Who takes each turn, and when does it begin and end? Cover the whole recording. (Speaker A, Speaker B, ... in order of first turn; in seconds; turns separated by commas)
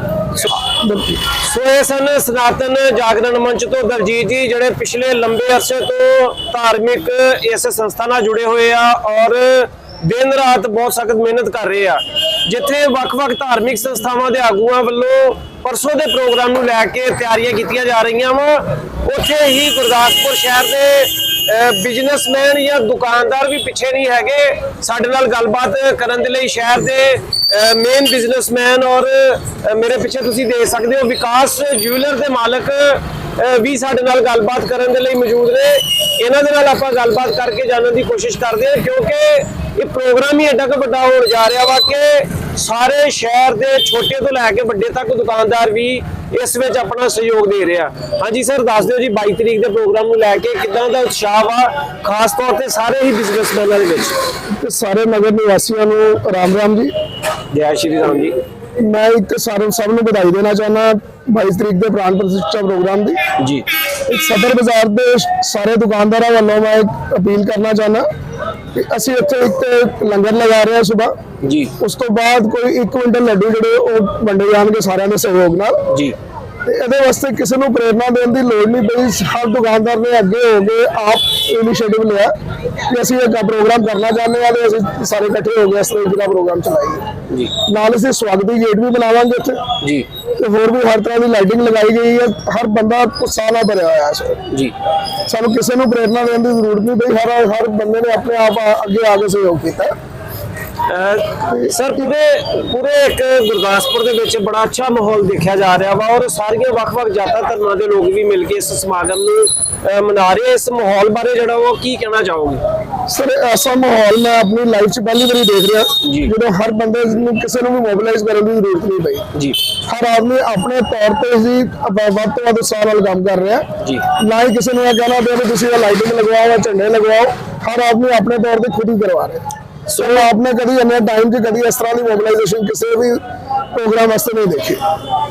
Speaker A: 0.8-1.2, Speaker B: 1.3-54.2, Speaker A: 54.5-56.9, Speaker B: 57.5-58.4, Speaker A: 58.8-63.2, Speaker B: 63.4-63.7, Speaker A: 64.1-68.1, Speaker A: 68.8-71.1, Speaker B: 71.4-71.7, Speaker A: 71.8-75.8, Speaker B: 75.9-76.2, Speaker A: 76.7-82.3, Speaker A: 82.9-87.1, Speaker A: 87.7-89.6, Speaker A: 90.4-94.4, Speaker A: 95.3-99.9, Speaker B: 100.9-112.6, Speaker A: 113.1-119.3, Speaker B: 116.0-116.3, Speaker A: 119.9-123.7, Speaker A: 124.2-129.4, Speaker B: 129.9-130.3, Speaker A: 130.0-133.2, Speaker A: 133.7-134.8